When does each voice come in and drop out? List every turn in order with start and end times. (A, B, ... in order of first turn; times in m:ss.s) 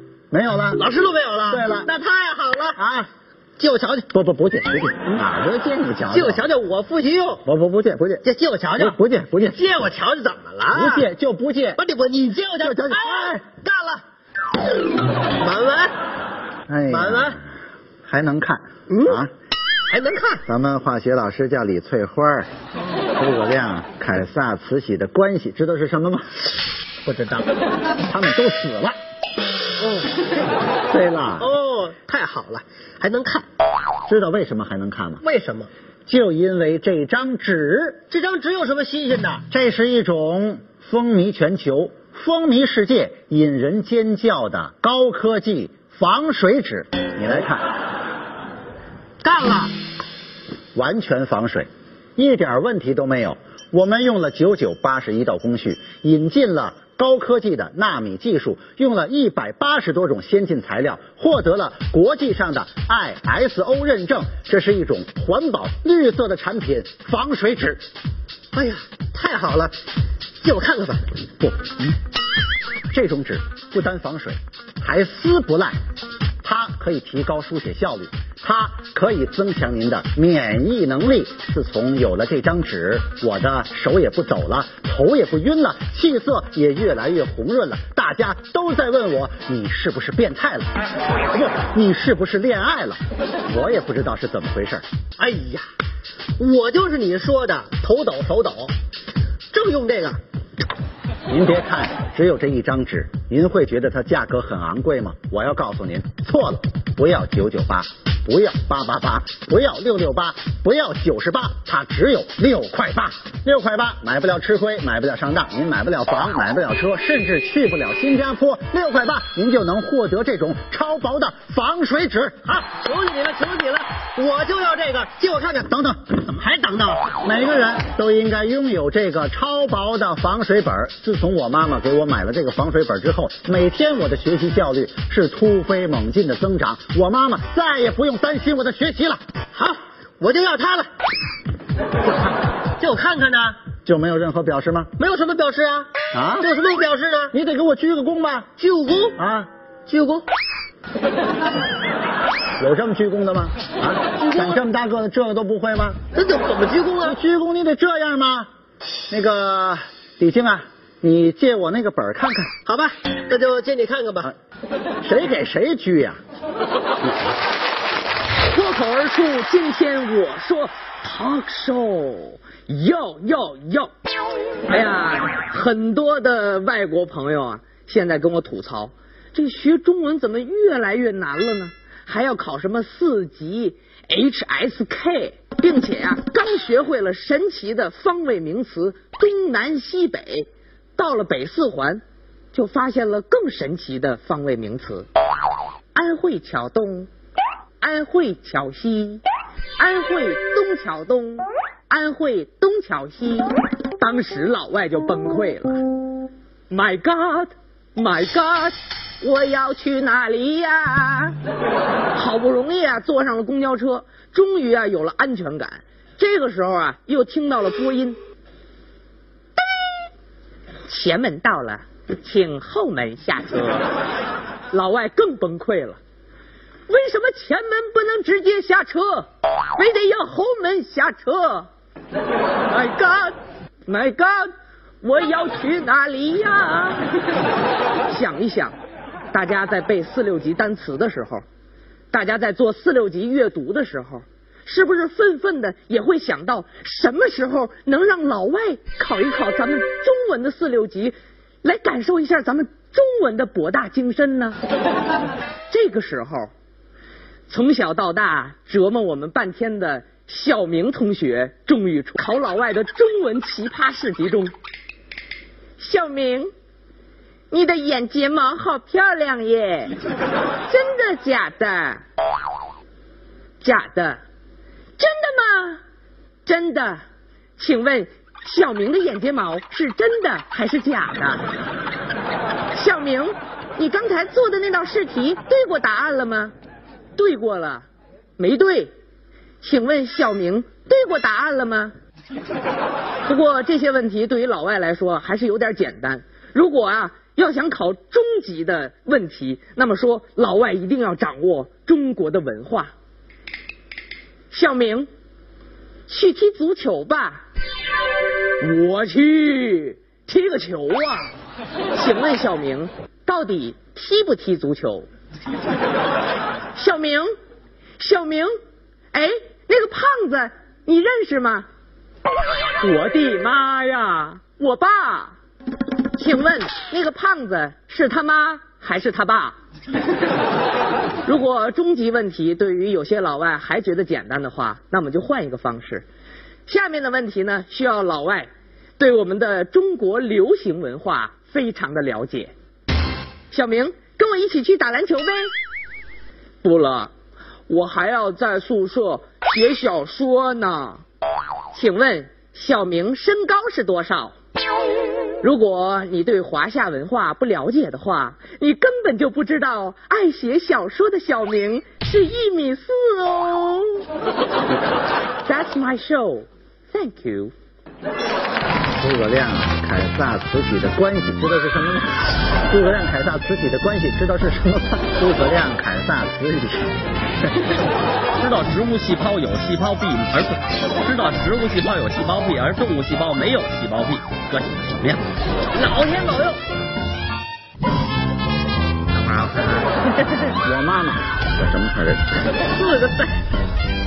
0:00.3-0:00.8 A
0:00.7-0:02.8 B
0:01.5-0:01.9 A
0:02.8-0:03.1 A
0:03.6-0:04.1 B
0:04.1-0:06.4 A
0:06.1-0:07.4 B
0:07.4-0:08.2 A
0:08.2-0:09.0 B
0:08.8-0:09.6 A
0:09.5-0:11.0 B
0:10.7-0:11.8 A
0:11.8-0:14.0 B
0:12.6-0:13.4 A
0:15.4-0:15.9 B
0:16.7-0:17.4 A
0:16.9-0:17.4 B
0:18.0-0:19.3 A
0:18.9-0:19.2 B
0:19.9-0:20.4 B
0:20.4-0:22.5 A
0:23.2-0:26.3 A
0:27.0-0:27.5 B
0:28.0-0:29.0 A
0:29.8-0:30.2 B
0:30.9-0:31.5 A
0:31.4-0:33.5 B
0:34.1-0:35.2 A
0:35.2-0:35.7 B
0:36.1-0:38.0 A
0:38.1-0:39.4 B
0:39.4-0:47.7 A
0:49.2-0:49.7 B
0:50.7-1:07.8 A
1:08.5-1:09.7 B
1:10.4-1:11.2 B
1:11.4-1:11.9 A
1:12.9-1:15.8 A
1:16.4-1:30.7 A
1:31.3-1:34.8 A
1:35.2-1:35.6 B
1:36.4-1:38.7 B
1:39.5-1:40.2 B
1:41.3-2:02.4 A
2:02.4-2:07.2 B
2:05.7-2:06.0 A
2:07.1-2:19.2 A
2:19.5-2:20.9 B
2:22.8-2:23.6 B
2:23.8-2:24.9 A
2:25.0-2:27.3 B
2:26.1-2:26.5 A
2:27.3-2:28.5 A
2:28.6-2:29.2 B
2:29.2-2:29.5 A
2:29.9-2:30.2 B
2:32.6-2:36.0 A
2:34.1-2:34.6 B
2:36.1-2:37.2 B
2:37.0-2:38.5 A
2:39.1-2:42.6 A
2:42.6-2:44.3 B
2:45.0-2:46.2 A
2:48.5-2:52.1 C
2:52.7-2:53.8 C
2:54.7-3:10.1 C
3:11.0-3:12.0 C
3:12.5-3:15.0 C
3:16.0-3:17.0 C
3:17.8-3:19.2 C
3:19.8-3:21.4 C
3:21.9-3:23.4 C
3:24.0-3:25.6 C
3:26.7-3:27.4 C
3:28.0-3:28.6 C
3:29.2-3:31.2 C
3:32.2-3:38.1 C
3:40.9-3:43.6 C
3:44.7-3:45.9 C
3:46.9-3:49.0 C
3:49.8-3:51.6 C
3:52.7-3:53.3 C
3:53.9-3:54.3 C
3:55.0-3:56.9 C
3:58.1-3:58.7 C
3:59.3-4:01.4 C
4:02.1-4:04.1 C
4:04.7-4:11.1 C
4:11.6-4:14.5 C
4:15.7-4:16.2 C
4:17.5-4:24.4 C
4:25.8-4:26.3 C
4:27.6-4:29.4 C
4:30.7-4:31.7 C
4:33.6-4:34.1 C
4:35.0-4:35.7 C
4:36.5-4:36.9 C
4:37.6-4:41.3 C
4:42.8-4:43.2 C
4:43.8-4:46.5 C
4:47.2-4:47.8 C
4:48.4-4:48.8 C
4:49.6-4:51.9 C
4:53.3-5:02.9 C
5:04.5-5:05.0 C
5:06.1-5:07.4 C
5:08.6-5:11.2 C
5:12.0-5:15.0 C
5:16.8-5:17.2 C
5:18.0-5:18.4 C
5:19.8-5:20.2 C
5:22.8-5:25.2 C
5:26.2-5:29.5 C
5:31.3-5:36.0 C
5:36.7-5:38.4 C
5:39.0-5:42.4 C
5:43.5-5:44.9 C
5:46.6-5:47.1 C
5:47.7-5:50.9 C
5:51.7-5:54.3 C
5:55.4-6:02.5 C
6:05.5-6:06.3 C
6:06.9-6:07.4 C
6:09.0-6:17.0 A
6:18.4-6:25.2 D
6:25.8-6:26.6 C
6:29.1-6:30.1 C
6:30.6-6:32.3 A